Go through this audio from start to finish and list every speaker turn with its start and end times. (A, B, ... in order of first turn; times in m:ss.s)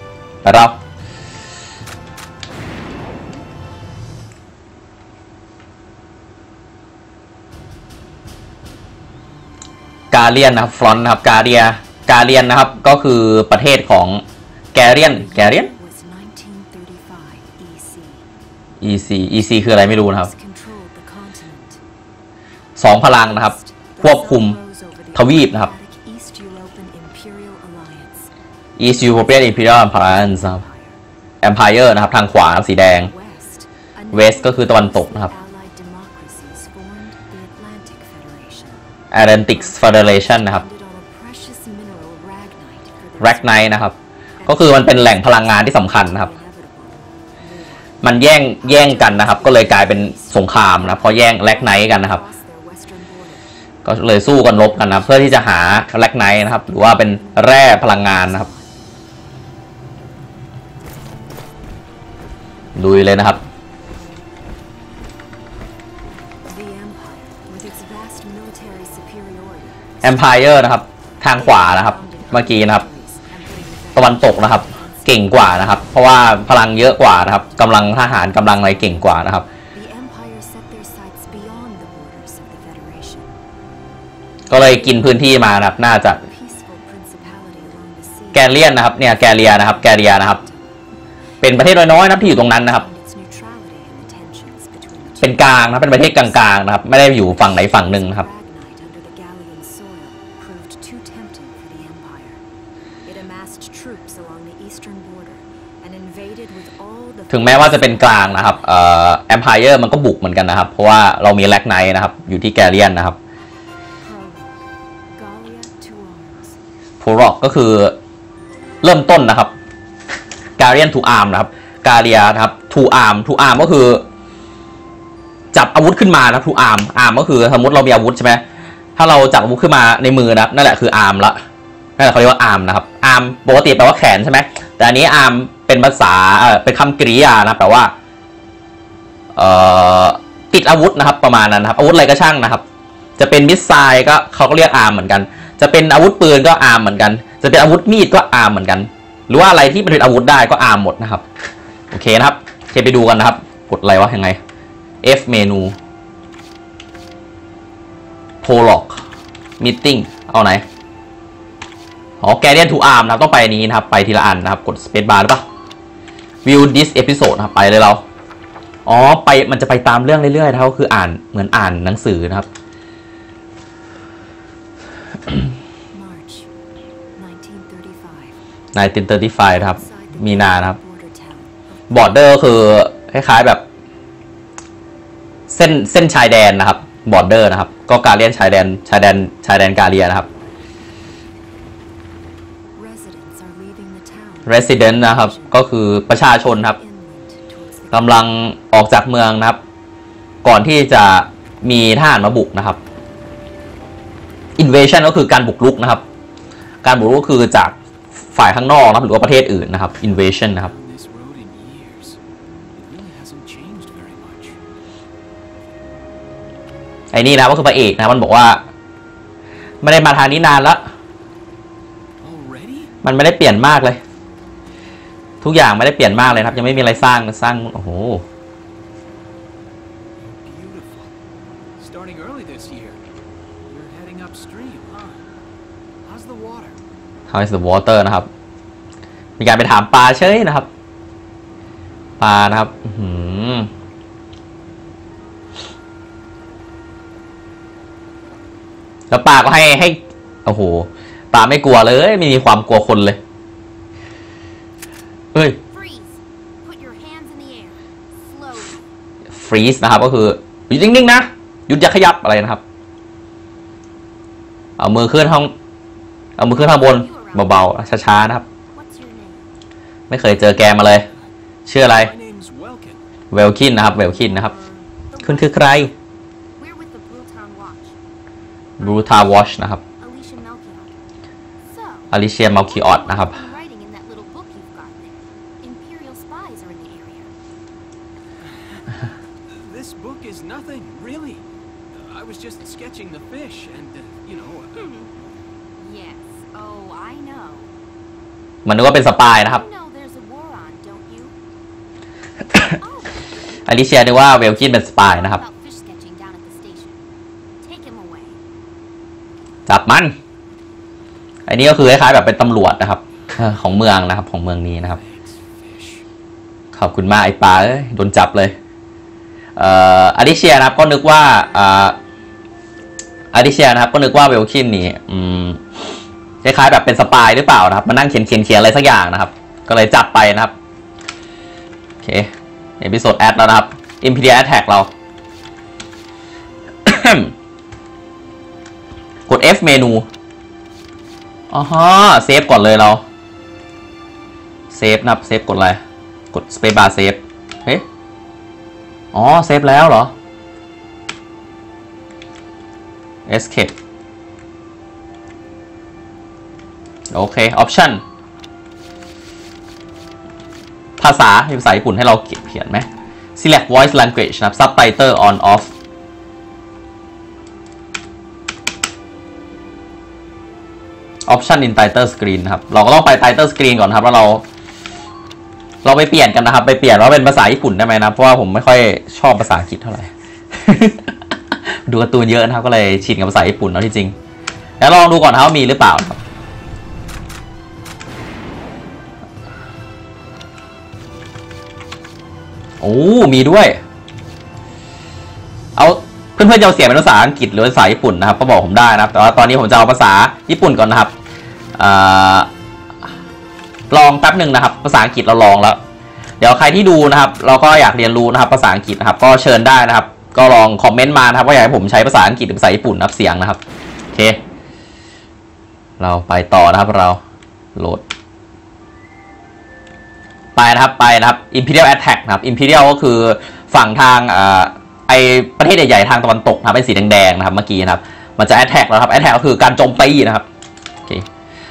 0:00.4-0:00.8 A
0:10.1-0:15.7 A
0:14.9-0:18.3 B
0:18.8-0:20.3 A
0:19.7-0:21.8 B
0:22.8-0:24.6 A
0:23.1-0:28.3 B
0:25.1-0:25.7 A
0:28.8-0:30.6 A
0:28.8-0:31.0 B
0:31.4-0:33.1 A
0:32.9-0:38.8 B
0:34.1-0:35.3 A
0:39.1-0:40.6 A
0:39.5-0:53.5 B
0:43.2-0:43.9 A
0:44.4-0:46.3 A
0:48.0-0:52.2 A
0:53.8-0:58.5 A
0:54.7-0:58.8 B
1:02.8-1:03.4 A
1:06.4-1:10.4 B
1:10.0-1:12.8 A
1:11.3-1:16.0 B
1:14.0-1:19.5 A
1:17.4-1:19.2 B
1:19.7-1:23.4 B
1:24.5-1:26.2 A
1:24.6-1:25.3 B
1:26.1-1:30.8 B
1:28.3-1:30.4 A
1:31.4-1:42.4 B
1:31.4-1:32.8 A
1:35.2-1:38.2 A
1:43.0-1:48.9 B
1:47.3-1:53.2 A
1:54.0-1:54.6 B
1:55.1-1:56.6 B
1:57.0-1:58.0 A
1:58.8-1:59.5 A
2:00.6-2:04.1 A
2:05.5-2:08.4 A
2:09.0-2:11.4 A
2:12.0-2:17.9 A
2:19.3-2:22.6 A
2:23.2-2:31.2 A
2:31.9-2:34.4 A
2:35.0-2:35.8 A
2:38.4-2:39.0 A
2:39.6-2:40.6 A
2:42.2-2:45.4 A
2:46.4-2:48.0 A
2:48.8-2:52.5 A
2:55.9-2:56.5 B
2:57.2-2:58.4 B
2:58.7-3:00.8 A
2:59.5-3:02.2 B
3:01.9-3:03.6 A
3:05.5-3:10.3 A
3:12.8-3:18.2 B
3:14.5-3:16.8 A
3:17.9-3:19.6 A
3:20.4-3:22.8 A
3:24.6-3:26.0 A
3:26.8-3:30.7 A
3:30.4-3:32.2 C
3:32.7-3:34.6 C
3:37.1-3:38.6 A
3:39.8-3:40.8 A
3:42.2-3:42.9 C
3:43.0-3:44.0 A
3:45.4-3:48.2 A
3:50.4-3:51.1 C
3:51.8-3:53.0 C
3:53.7-3:55.2 C
3:56.0-3:56.8 C
3:57.3-3:58.3 A
3:59.4-4:00.7 A
4:02.2-4:03.7 A
4:09.1-4:13.2 A
4:15.3-4:15.6 A
4:15.7-4:18.8 D
4:19.3-4:22.6 A
4:24.8-4:25.5 A
4:26.4-4:28.4 A
4:26.6-4:29.4 D
4:30.1-4:31.1 A
4:31.6-4:32.1 A
4:31.8-4:33.0 C
4:33.3-4:34.5 A
4:34.1-4:35.9 D
4:35.2-4:35.9 A
4:36.6-4:38.0 D
4:38.8-4:39.8 A
4:38.8-4:40.9 D
4:41.6-4:47.3 D
4:42.1-4:43.4 A
4:48.4-4:48.8 C
4:49.5-4:54.9 C
4:54.8-4:55.1 D
4:55.8-4:57.7 D
4:58.6-4:59.6 A
4:59.2-5:01.3 D
5:02.6-5:03.4 D
5:03.6-5:05.4 A
5:05.0-5:07.0 D
5:07.6-5:08.4 D
5:09.6-5:10.1 A
5:11.5-5:15.0 A
5:14.8-5:16.1 C
5:16.7-5:18.6 A
5:19.6-5:22.0 A
5:23.3-5:25.6 A
5:26.4-5:30.5 A
5:32.0-5:34.9 A
5:36.8-5:37.3 A
5:39.3-5:40.1 A
5:41.5-5:43.0 A
5:44.7-5:45.8 A
5:46.3-5:47.8 A
5:49.1-5:50.1 A
5:53.3-5:53.7 A
5:57.1-5:58.0 A
6:01.0-6:05.7 A
6:11.2-6:14.4 A
6:15.8-6:21.2 A
6:21.7-6:24.2 A
6:24.8-6:26.2 A
6:32.8-6:33.8 A
6:35.8-6:41.1 A
6:41.7-6:42.5 A
6:43.9-6:45.8 A
6:46.4-6:53.6 A
6:54.1-6:54.4 A
6:56.0-6:57.2 A
6:57.8-6:58.0 A
7:00.6-7:10.4 A